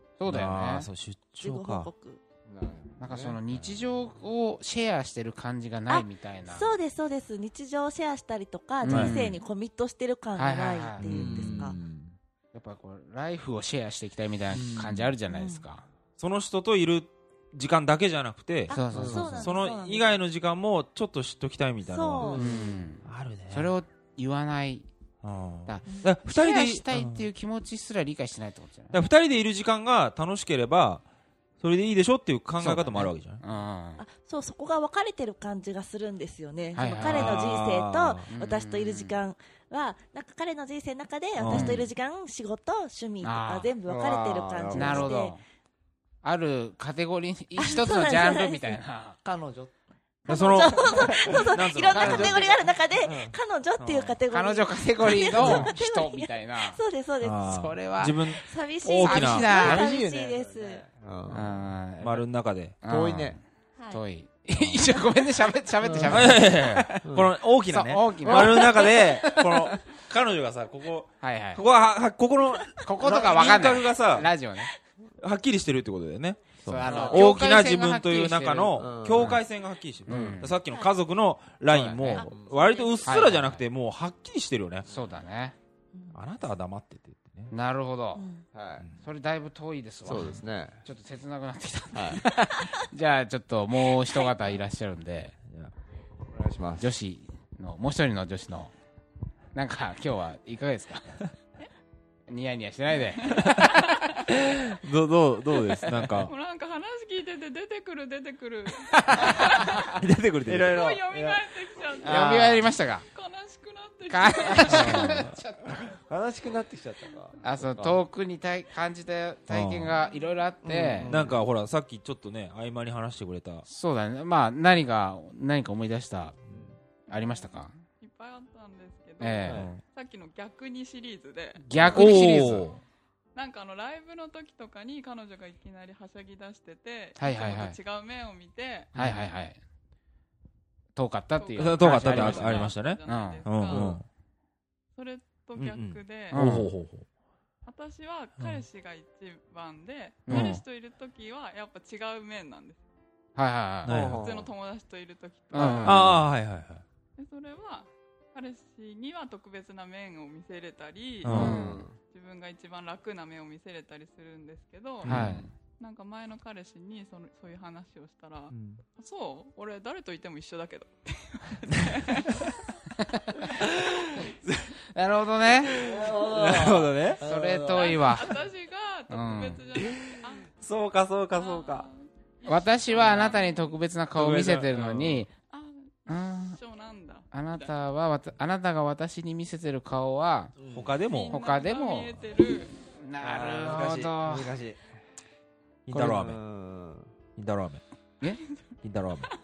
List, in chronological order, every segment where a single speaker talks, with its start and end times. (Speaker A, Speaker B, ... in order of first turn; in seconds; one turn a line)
Speaker A: 0.2-0.9
Speaker B: 0.2-1.9
Speaker C: 1.4-2.2
Speaker D: 2.5-3.4
Speaker A: 3.0-6.7
Speaker C: 5.9-11.8
Speaker A: 8.8-9.4
Speaker B: 8.9-9.1
Speaker A: 10.4-11.6
Speaker D: 11.0-12.2
Speaker A: 12.5-15.8
Speaker D: 14.5-15.1
Speaker C: 15.3-15.6
Speaker B: 16.2-22.4
Speaker C: 18.7-20.1
Speaker A: 18.7-19.5
Speaker D: 18.9-19.3
Speaker C: 21.8-22.8
Speaker D: 22.2-22.7
Speaker A: 22.3-24.9
Speaker B: 23.0-23.7
Speaker B: 25.2-27.2
Speaker A: 25.7-29.0
Speaker C: 25.9-26.1
Speaker B: 28.9-31.0
Speaker B: 31.6-33.4
Speaker A: 32.6-34.0
Speaker C: 34.0-45.4
Speaker A: 36.7-37.4
Speaker B: 37.0-38.3
Speaker A: 38.3-39.2
Speaker B: 41.4-41.9
Speaker A: 41.5-41.8
Speaker A: 43.2-43.7
Speaker D: 43.9-45.1
Speaker A: 44.7-45.4
Speaker A: 46.2-49.2
Speaker C: 47.6-48.8
Speaker D: 49.2-49.7
Speaker B: 50.2-52.5
Speaker C: 50.2-57.6
Speaker D: 50.7-51.5
Speaker A: 51.9-52.6
Speaker D: 53.0-53.4
Speaker B: 53.8-54.1
Speaker A: 54.3-56.8
Speaker D: 55.4-55.7
Speaker B: 57.2-59.5
Speaker A: 57.5-58.4
Speaker C: 58.3-60.9
Speaker A: 59.0-59.9
Speaker D: 59.5-61.5
Speaker A: 61.3-62.3
Speaker B: 62.0-62.8
Speaker A: 62.8-63.4
Speaker D: 62.9-63.4
Speaker C: 63.8-64.0
Speaker A: 63.9-67.0
Speaker D: 65.8-66.4
Speaker B: 66.1-74.3
Speaker D: 67.0-67.3
Speaker A: 67.7-69.7
Speaker D: 68.2-69.8
Speaker A: 71.2-71.6
Speaker A: 72.8-74.7
Speaker B: 75.2-84.9
Speaker D: 76.6-77.4
Speaker A: 76.6-79.4
Speaker D: 78.7-79.4
Speaker D: 80.1-80.4
Speaker A: 80.1-80.6
Speaker D: 81.7-82.7
Speaker C: 82.0-83.2
Speaker A: 83.0-83.6
Speaker A: 84.8-85.5
Speaker B: 86.1-87.5
Speaker A: 87.5-88.2
Speaker C: 88.1-88.5
Speaker D: 88.5-88.9
Speaker A: 89.0-95.3
Speaker D: 90.0-90.8
Speaker D: 91.9-92.2
Speaker B: 95.5-95.7
Speaker D: 96.3-96.9
Speaker A: 96.8-98.7
Speaker A: 99.5-101.2
Speaker A: 102.3-103.8
Speaker E: 103.2-104.2
Speaker B: 104.3-106.3
Speaker E: 106.1-110.0
Speaker A: 108.8-109.8
Speaker B: 110.0-110.8
Speaker D: 110.5-112.6
Speaker E: 110.7-115.3
Speaker A: 112.0-113.0
Speaker A: 114.1-115.6
Speaker D: 114.7-118.0
Speaker B: 114.7-115.3
Speaker A: 117.4-121.2
Speaker B: 119.5-120.0
Speaker D: 120.6-121.4
Speaker B: 121.0-123.7
Speaker A: 123.7-126.3
Speaker D: 126.5-126.8
Speaker A: 127.1-127.8
Speaker E: 127.2-127.4
Speaker E: 128.0-132.4
Speaker A: 129.2-129.7
Speaker D: 129.4-129.7
Speaker B: 129.5-129.8
Speaker A: 131.7-132.7
Speaker D: 131.7-132.0
Speaker B: 131.8-132.8
Speaker E: 133.3-138.9
Speaker A: 137.2-137.8
Speaker B: 138.9-139.3
Speaker A: 138.9-139.6
Speaker A: 140.9-143.5
Speaker E: 141.4-144.0
Speaker B: 141.6-144.0
Speaker D: 143.7-144.0
Speaker E: 144.9-146.6
Speaker B: 145.6-147.1
Speaker A: 146.3-146.7
Speaker E: 147.6-152.8
Speaker A: 150.2-150.6
Speaker B: 150.3-150.6
Speaker A: 153.3-154.0
Speaker B: 153.8-154.3
Speaker D: 153.9-154.5
Speaker E: 154.2-156.2
Speaker A: 155.5-156.2
Speaker B: 155.8-156.8
Speaker E: 157.2-165.3
Speaker B: 161.2-161.6
Speaker D: 161.3-161.9
Speaker A: 161.3-161.8
Speaker B: 165.0-165.4
Speaker A: 165.0-165.4
Speaker D: 165.1-165.5
Speaker E: 165.8-172.6
Speaker B: 168.5-168.8
Speaker A: 173.0-173.4
Speaker B: 173.6-174.7
Speaker A: 174.9-175.8
Speaker B: 175.6-177.2
Speaker D: 175.7-178.1
Speaker A: 177.2-178.4
Speaker E: 177.7-180.5
Speaker A: 179.1-179.6
Speaker B: 179.7-181.9
Speaker E: 181.3-183.7
Speaker A: 182.4-185.3
Speaker B: 183.0-183.3
Speaker B: 184.1-185.2
Speaker E: 185.4-187.7
Speaker A: 186.1-186.6
Speaker A: 187.3-190.5
Speaker D: 190.6-190.9
Speaker B: 190.7-191.4
Speaker E: 191.0-192.8
Speaker A: 191.3-192.1
Speaker A: 192.9-194.5
Speaker D: 193.2-194.9
Speaker B: 195.9-196.4
Speaker A: 195.9-196.2
Speaker D: 195.9-197.1
Speaker B: 197.3-197.8
Speaker B: 198.8-199.3